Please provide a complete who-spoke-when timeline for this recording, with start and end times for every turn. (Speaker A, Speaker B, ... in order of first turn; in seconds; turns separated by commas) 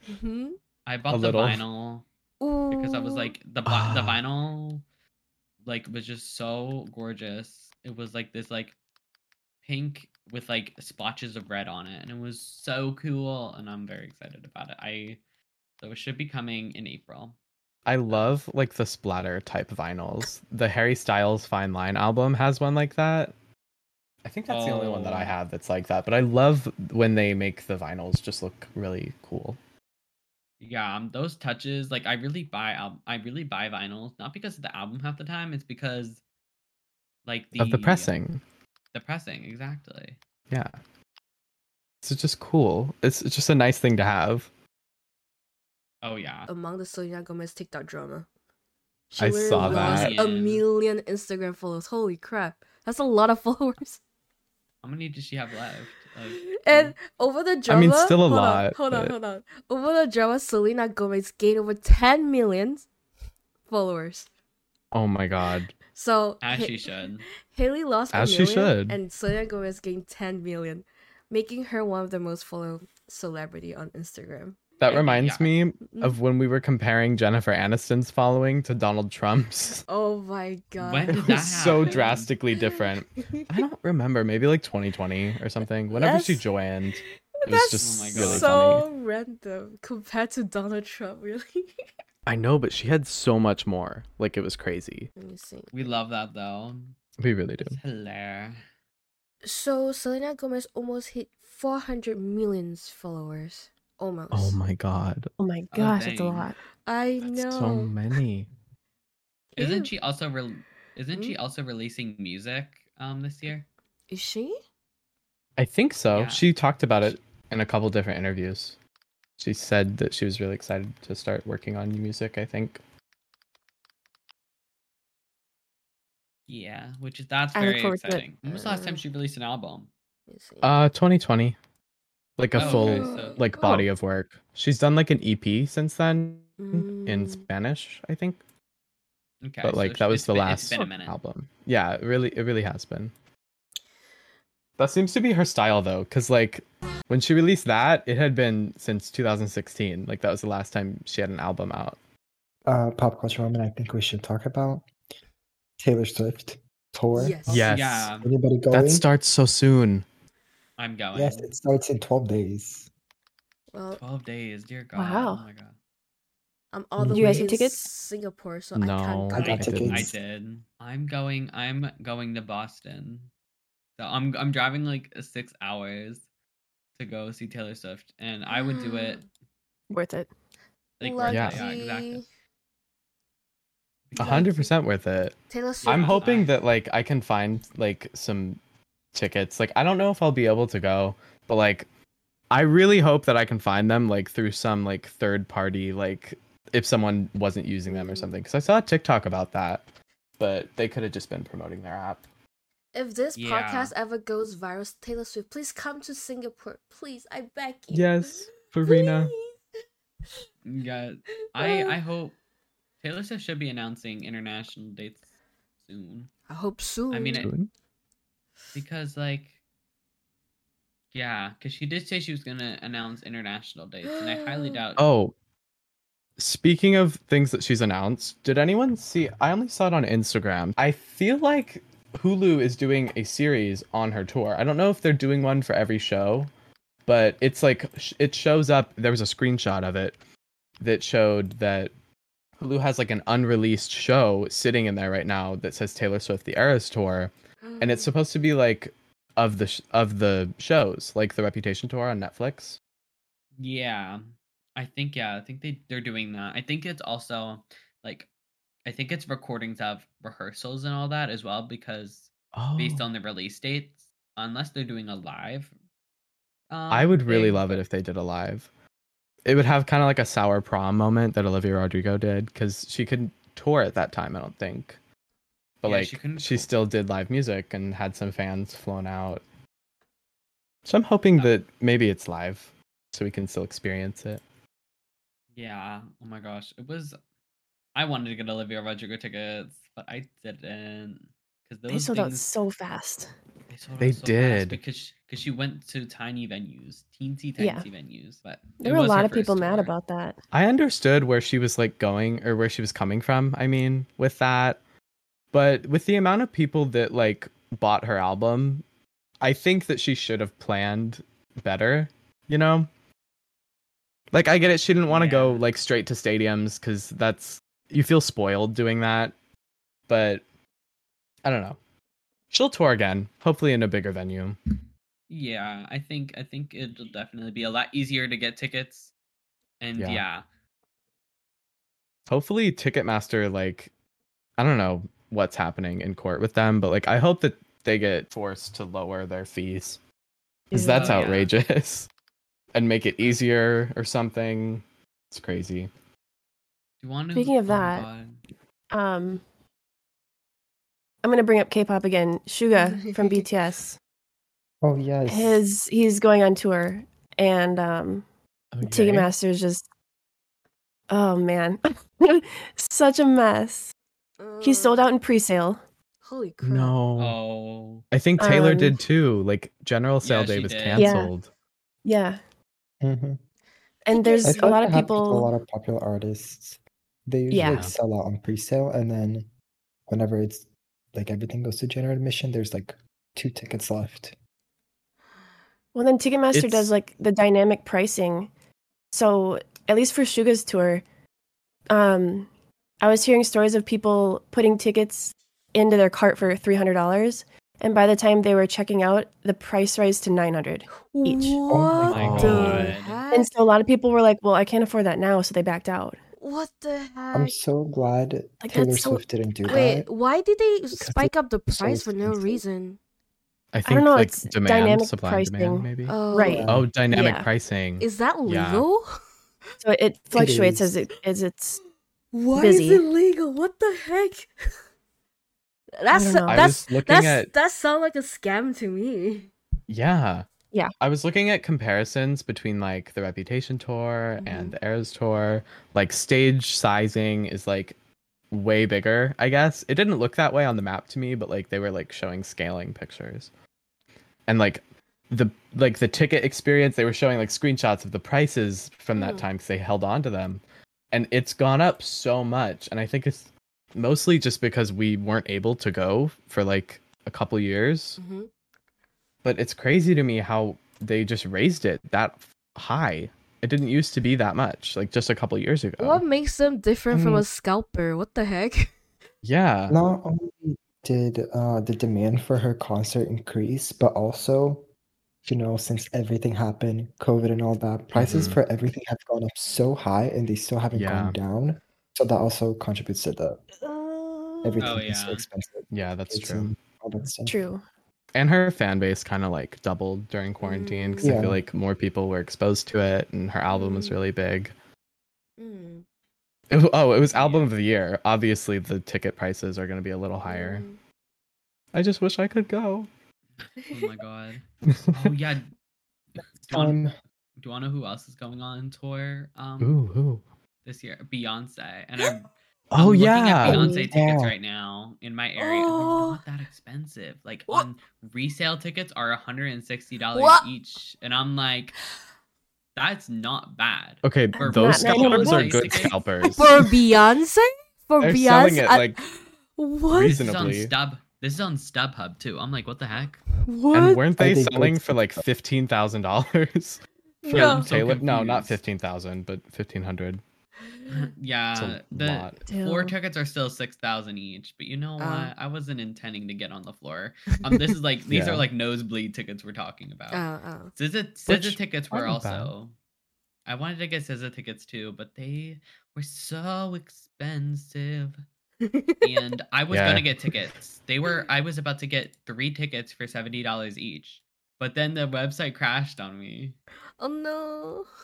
Speaker A: 0.1-0.6, Speaker B: 0.8-2.0, Speaker C: 1.1-1.6, Speaker A: 2.4-3.3, Speaker B: 2.7-4.8, Speaker C: 3.6-4.2, Speaker B: 5.6-8.7, Speaker B: 9.6-15.2, Speaker B: 15.8-17.4, Speaker C: 17.9-23.3, Speaker C: 24.2-29.6, Speaker B: 24.5-25.3, Speaker B: 30.6-36.2, Speaker B: 37.2-38.1, Speaker C: 37.5-38.4, Speaker B: 38.9-40.2, Speaker C: 40.5-40.8, Speaker C: 42.0-44.5, Speaker B: 46.0-46.5, Speaker A: 46.5-48.3, Speaker A: 49.1-54.0, Speaker C: 49.2-50.1, Speaker B: 49.6-50.6, Speaker B: 54.8-57.0, Speaker A: 56.4-62.9, Speaker C: 57.7-59.1, Speaker A: 63.7-64.3, Speaker C: 64.9-65.7, Speaker A: 65.9-66.9, Speaker B: 66.4-67.2, Speaker A: 67.5-74.6, Speaker C: 68.1-69.0, Speaker C: 74.8-79.8, Speaker B: 74.9-75.5, Speaker A: 75.9-76.2, Speaker A: 79.9-83.6, Speaker B: 80.8-82.3, Speaker C: 81.1-88.8, Speaker A: 85.9-86.4, Speaker A: 87.4-91.7, Speaker B: 87.8-88.8, Speaker C: 92.2-95.1, Speaker A: 95.2-95.7, Speaker B: 95.7-97.0, Speaker C: 97.2-97.8, Speaker B: 97.6-98.6, Speaker A: 99.4-104.6, Speaker C: 104.3-105.3, Speaker D: 105.4-106.5, Speaker B: 105.7-106.5, Speaker A: 106.8-107.9, Speaker C: 107.2-108.5, Speaker A: 109.5-109.9, Speaker B: 109.6-113.7, Speaker A: 114.1-114.5, Speaker C: 115.6-118.8, Speaker B: 116.1-116.5, Speaker C: 119.4-122.8, Speaker B: 126.5-129.9, Speaker D: 127.5-128.3, Speaker A: 128.5-129.0, Speaker A: 130.3-130.7, Speaker C: 130.6-131.6, Speaker C: 132.4-138.4, Speaker B: 132.5-133.4, Speaker A: 132.6-133.8, Speaker A: 136.6-137.4, Speaker B: 139.4-141.2, Speaker C: 139.6-143.1, Speaker C: 144.8-152.0, Speaker E: 152.7-154.8, Speaker E: 155.8-157.4, Speaker A: 157.1-157.7, Speaker C: 157.5-158.1, Speaker B: 157.7-158.3, Speaker E: 158.1-159.1, Speaker C: 158.7-160.0, Speaker B: 160.8-161.5, Speaker E: 161.1-162.9, Speaker A: 163.7-164.0, Speaker B: 163.9-165.7, Speaker D: 164.9-165.4, Speaker A: 166.7-169.6, Speaker E: 167.0-167.5, Speaker D: 167.1-167.9, Speaker C: 168.7-170.1, Speaker E: 169.3-170.2, Speaker B: 169.4-173.3, Speaker B: 174.0-176.2, Speaker B: 176.9-179.2, Speaker A: 178.5-179.2, Speaker D: 179.9-180.3, Speaker B: 181.0-182.2, Speaker A: 181.0-182.2, Speaker C: 181.2-181.6, Speaker B: 184.1-184.5, Speaker C: 184.2-188.6, Speaker A: 184.2-184.7, Speaker A: 185.5-186.3, Speaker B: 185.8-186.5, Speaker C: 189.1-191.9, Speaker C: 192.5-199.8, Speaker A: 197.9-198.3, Speaker C: 200.4-202.2, Speaker A: 202.9-209.5, Speaker B: 203.3-203.9, Speaker C: 207.9-209.3, Speaker B: 210.6-212.4, Speaker A: 211.5-211.9, Speaker B: 213.0-215.2, Speaker B: 215.8-216.3, Speaker A: 216.5-217.5, Speaker B: 217.1-217.5, Speaker C: 217.4-217.7, Speaker B: 218.7-219.6, Speaker B: 221.1-225.0, Speaker A: 224.2-224.8, Speaker C: 225.0-225.3, Speaker C: 226.4-236.5, Speaker C: 237.1-240.2, Speaker C: 240.8-241.9, Speaker C: 242.6-252.8, Speaker A: 247.6-248.1, Speaker B: 253.6-258.3, Speaker B: 258.9-265.7, Speaker C: 262.5-263.0, Speaker B: 266.7-267.8, Speaker C: 266.9-268.7, Speaker C: 269.4-275.0, Speaker C: 275.8-279.4, Speaker B: 275.8-276.7, Speaker C: 280.9-284.4, Speaker B: 285.6-287.1, Speaker B: 287.9-292.5, Speaker D: 291.9-293.3, Speaker B: 293.7-299.9, Speaker C: 294.0-294.8, Speaker D: 297.6-297.9, Speaker D: 298.8-300.4, Speaker C: 300.5-304.8, Speaker C: 305.5-308.8, Speaker C: 309.4-312.9, Speaker C: 314.3-319.3, Speaker B: 315.1-315.6, Speaker C: 320.1-320.4, Speaker C: 321.4-321.8, Speaker C: 322.5-324.6, Speaker B: 325.3-329.1, Speaker B: 329.8-330.4, Speaker C: 330.0-330.2, Speaker C: 332.3-333.9, Speaker C: 334.6-340.0, Speaker C: 340.7-342.1, Speaker D: 340.7-341.2, Speaker B: 340.9-341.5, Speaker C: 342.7-345.9, Speaker B: 347.0-348.4, Speaker D: 347.3-348.1, Speaker D: 348.9-349.4, Speaker D: 351.2-354.0, Speaker A: 352.8-353.4, Speaker E: 354.8-355.6, Speaker D: 355.3-358.2, Speaker C: 358.7-359.3, Speaker D: 358.8-359.8, Speaker D: 361.1-363.9, Speaker A: 364.4-365.1, Speaker D: 364.6-365.8, Speaker A: 366.2-366.9, Speaker C: 366.6-367.4, Speaker B: 367.2-368.0, Speaker C: 368.1-371.5, Speaker D: 368.4-369.0, Speaker B: 370.2-371.2, Speaker D: 370.9-371.3, Speaker D: 372.0-372.4, Speaker E: 373.0-373.4, Speaker D: 374.1-375.5, Speaker A: 374.1-375.0, Speaker E: 374.4-379.5, Speaker D: 377.5-377.9, Speaker C: 377.6-377.9, Speaker E: 380.1-384.3, Speaker D: 385.9-388.5, Speaker C: 386.5-386.9, Speaker D: 389.1-391.0, Speaker D: 391.9-392.5, Speaker D: 393.0-401.6, Speaker A: 401.0-403.5, Speaker E: 401.7-402.8, Speaker C: 402.0-402.9, Speaker B: 402.2-403.2, Speaker D: 402.4-406.2, Speaker A: 406.4-407.5, Speaker E: 407.3-410.1, Speaker D: 408.6-409.9, Speaker A: 409.6-413.0, Speaker E: 410.9-412.6, Speaker C: 413.7-416.1, Speaker D: 413.9-417.5, Speaker A: 416.1-416.6, Speaker E: 416.4-416.9, Speaker C: 416.7-418.9, Speaker A: 418.0-419.2, Speaker D: 419.8-421.8, Speaker E: 420.3-420.9, Speaker A: 422.3-424.5, Speaker D: 422.6-423.1, Speaker A: 426.0-429.5, Speaker D: 426.1-426.7, Speaker C: 426.5-427.5, Speaker C: 429.9-430.5, Speaker C: 431.0-437.9, Speaker A: 434.4-434.7, Speaker C: 438.5-443.5, Speaker C: 444.5-458.2, Speaker A: 449.1-449.4, Speaker A: 458.2-458.5, Speaker C: 459.4-466.2, Speaker A: 466.0-468.9, Speaker E: 467.1-467.4, Speaker C: 469.4-470.0, Speaker E: 469.9-474.9, Speaker E: 475.4-483.6, Speaker C: 478.1-478.6, Speaker C: 480.9-481.4, Speaker A: 483.8-485.0, Speaker E: 484.6-487.6, Speaker B: 484.8-485.4, Speaker C: 485.9-486.7, Speaker D: 487.4-487.8, Speaker C: 488.3-494.7, Speaker A: 490.6-491.3, Speaker E: 491.2-491.6, Speaker A: 493.7-494.2, Speaker A: 495.6-496.0, Speaker C: 496.7-500.9, Speaker B: 497.3-497.7, Speaker A: 500.5-501.0, Speaker C: 501.9-503.1, Speaker B: 503.8-505.7, Speaker C: 504.9-505.3, Speaker B: 506.4-507.0, Speaker E: 506.7-507.1, Speaker B: 507.6-510.0, Speaker C: 509.8-510.4, Speaker B: 510.8-522.0, Speaker C: 512.9-513.9, Speaker E: 513.6-514.5, Speaker A: 513.7-514.1, Speaker A: 515.6-516.4, Speaker A: 520.3-520.6, Speaker B: 523.0-526.2, Speaker C: 524.2-526.7, Speaker D: 524.5-525.9, Speaker A: 526.6-530.4, Speaker C: 528.2-529.2, Speaker C: 530.1-530.9, Speaker B: 530.3-533.4, Speaker A: 533.5-534.2, Speaker C: 533.9-540.4, Speaker E: 534.4-535.4, Speaker A: 537.4-537.9, Speaker B: 537.5-538.8, Speaker B: 541.1-550.4, Speaker C: 541.7-542.5, Speaker D: 542.7-543.1, Speaker A: 545.2-545.5, Speaker C: 548.3-548.6, Speaker A: 550.3-550.9, Speaker B: 551.0-552.9, Speaker C: 551.5-552.7, Speaker B: 553.6-558.4, Speaker A: 558.8-559.3, Speaker B: 559.2-566.8, Speaker C: 559.9-560.3, Speaker A: 567.2-568.1